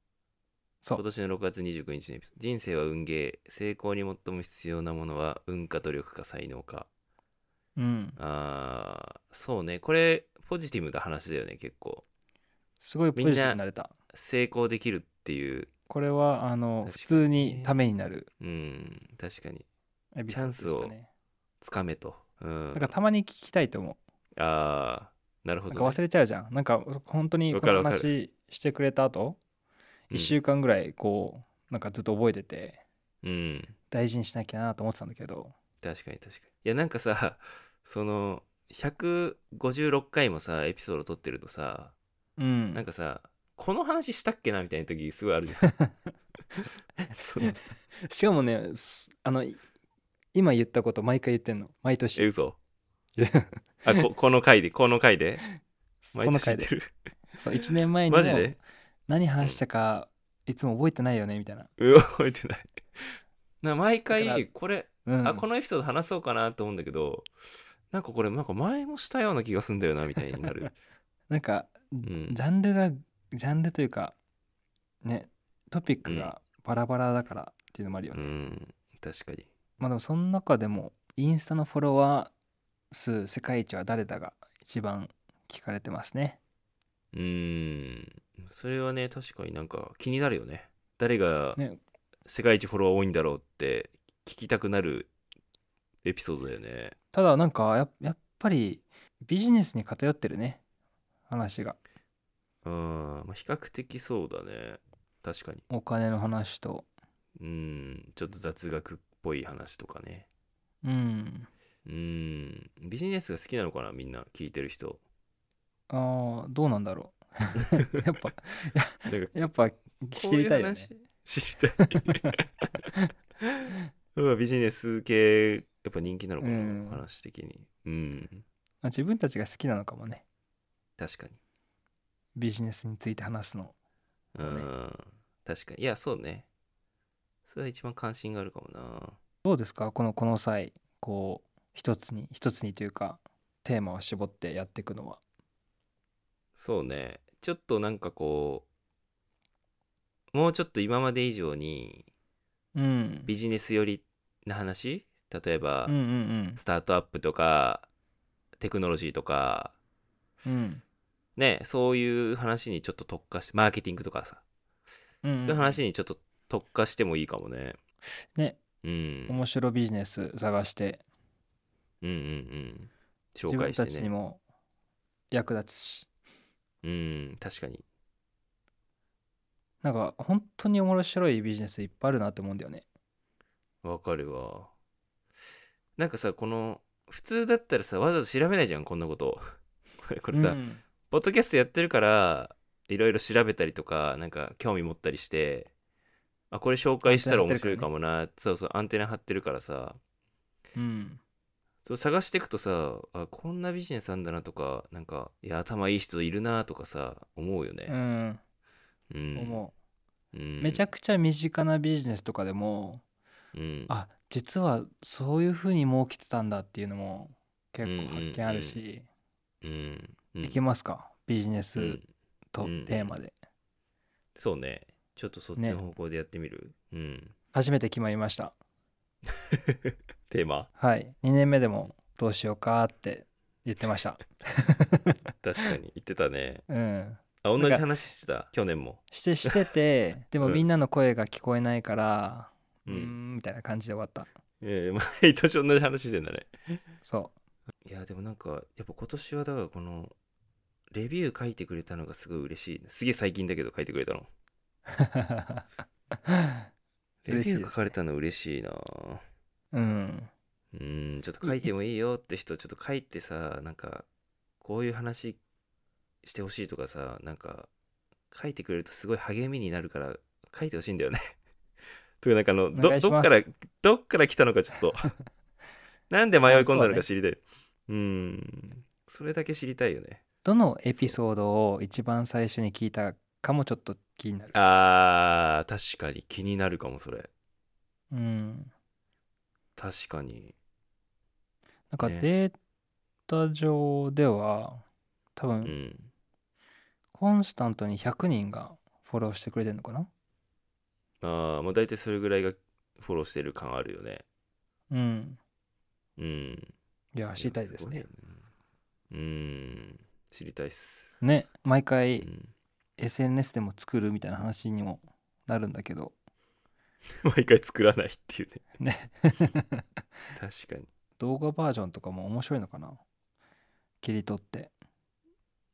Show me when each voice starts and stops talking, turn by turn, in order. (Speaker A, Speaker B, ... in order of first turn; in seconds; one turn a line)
Speaker A: 0.9-6.9
Speaker B: 7.8-8.2
Speaker A: 8.2-12.0
Speaker B: 12.8-13.9
Speaker A: 13.2-13.6
Speaker A: 14.1-15.7
Speaker B: 15.9-18.3
Speaker A: 16.9-17.8
Speaker A: 18.4-19.7
Speaker B: 20.1-21.1
Speaker A: 20.3-20.9
Speaker A: 21.6-22.9
Speaker B: 22.7-24.0
Speaker A: 24.4-26.0
Speaker B: 25.7-29.4
Speaker A: 27.5-28.1
Speaker B: 30.1-32.8
Speaker A: 33.2-33.8
Speaker B: 33.9-35.5
Speaker A: 35.8-42.0
Speaker B: 42.4-42.8
Speaker A: 42.7-45.8
Speaker A: 47.1-47.8
Speaker B: 48.1-49.6
Speaker B: 50.3-52.3
Speaker A: 52.1-52.6
Speaker B: 53.2-54.0
Speaker A: 53.9-55.4
Speaker B: 56.0-56.7
Speaker A: 56.1-56.9
Speaker B: 57.4-61.7
Speaker A: 58.1-58.6
Speaker A: 61.8-67.3
Speaker B: 64.1-64.5
Speaker B: 65.0-65.5
Speaker A: 67.9-70.7
Speaker B: 71.3-74.2
Speaker A: 72.0-72.4
Speaker B: 75.0-78.3
Speaker A: 76.0-76.3
Speaker A: 78.1-79.5
Speaker B: 79.8-82.3
Speaker B: 82.9-86.4
Speaker A: 87.1-91.6
Speaker A: 92.3-95.1
Speaker A: 96.0-97.0
Speaker B: 97.1-100.6
Speaker B: 101.3-101.8
Speaker A: 102.6-105.6
Speaker B: 105.7-106.9
Speaker A: 107.4-110.3
Speaker B: 110.8-111.5
Speaker A: 111.9-115.0
Speaker B: 115.9-120.9
Speaker A: 119.1-119.3
Speaker A: 120.2-122.4
Speaker B: 121.9-122.3
Speaker A: 123.4-128.4
Speaker B: 126.4-127.0
Speaker B: 128.8-130.2
Speaker A: 131.0-131.4
Speaker B: 132.4-133.8
Speaker A: 134.3-136.5
Speaker B: 134.4-134.7
Speaker A: 137.5-139.2
Speaker B: 139.4-145.2
Speaker A: 146.6-148.7
Speaker A: 150.3-152.1
Speaker B: 152.8-153.3
Speaker A: 153.3-155.9
Speaker B: 155.9-156.6
Speaker A: 156.6-157.9
Speaker A: 158.6-159.8
Speaker B: 160.4-160.8
Speaker A: 161.4-164.4
Speaker B: 165.2-165.8
Speaker A: 165.4-167.8
Speaker A: 168.8-169.4
Speaker B: 169.3-171.0
Speaker A: 172.0-174.1
Speaker B: 173.5-174.4
Speaker B: 175.3-176.1
Speaker A: 176.8-177.8
Speaker B: 179.8-182.9
Speaker A: 183.8-184.7
Speaker A: 186.0-190.6
Speaker B: 190.3-190.8
Speaker A: 191.1-195.7
Speaker A: 196.5-200.0
Speaker B: 197.0-197.9
Speaker B: 200.8-201.2
Speaker A: 201.8-208.0
Speaker B: 207.9-208.4
Speaker A: 209.1-209.6
Speaker B: 209.4-209.7
Speaker A: 210.3-210.9
Speaker B: 210.6-213.0
Speaker A: 213.5-213.9
Speaker B: 213.9-219.1
Speaker A: 217.8-218.8
Speaker A: 219.6-220.6
Speaker B: 220.4-222.0
Speaker A: 221.8-222.1
Speaker B: 222.5-223.3
Speaker A: 222.6-223.2
Speaker A: 224.3-227.3
Speaker B: 225.6-225.8
Speaker B: 227.5-228.6
Speaker A: 229.5-230.7
Speaker B: 230.8-235.2
Speaker A: 235.4-236.7
Speaker B: 236.7-237.8
Speaker A: 237.4-239.7
Speaker B: 239.1-244.3
Speaker A: 242.8-243.2
Speaker A: 244.6-246.8
Speaker B: 247.0-247.3
Speaker A: 247.8-250.1
Speaker A: 250.9-254.3
Speaker B: 254.9-255.7
Speaker B: 256.3-256.6
Speaker A: 257.2-259.2
Speaker B: 257.3-257.9
Speaker B: 259.7-260.3
Speaker A: 260.7-264.1
Speaker B: 261.4-261.7
Speaker A: 264.6-265.4
Speaker A: 266.2-267.7
Speaker A: 268.3-271.3
Speaker A: 272.2-275.1
Speaker B: 272.7-273.4
Speaker A: 276.1-280.2
Speaker B: 276.4-277.1
Speaker B: 280.4-284.6
Speaker A: 280.9-281.2
Speaker A: 284.5-287.3
Speaker B: 288.1-288.7
Speaker A: 289.8-290.6
Speaker B: 291.9-292.6
Speaker A: 292.0-292.3
Speaker B: 293.3-294.8
Speaker B: 295.4-295.7
Speaker A: 295.6-296.1
Speaker B: 297.1-300.1
Speaker A: 301.2-304.2
Speaker B: 304.9-305.4
Speaker A: 306.2-306.7
Speaker B: 307.1-308.1
Speaker A: 307.4-308.4
Speaker A: 309.1-311.1
Speaker B: 311.2-312.3
Speaker A: 312.2-312.5
Speaker B: 313.0-316.1
Speaker A: 317.2-318.6
Speaker B: 318.8-319.8
Speaker A: 320.4-320.9
Speaker B: 321.2-323.0
Speaker B: 324.0-324.7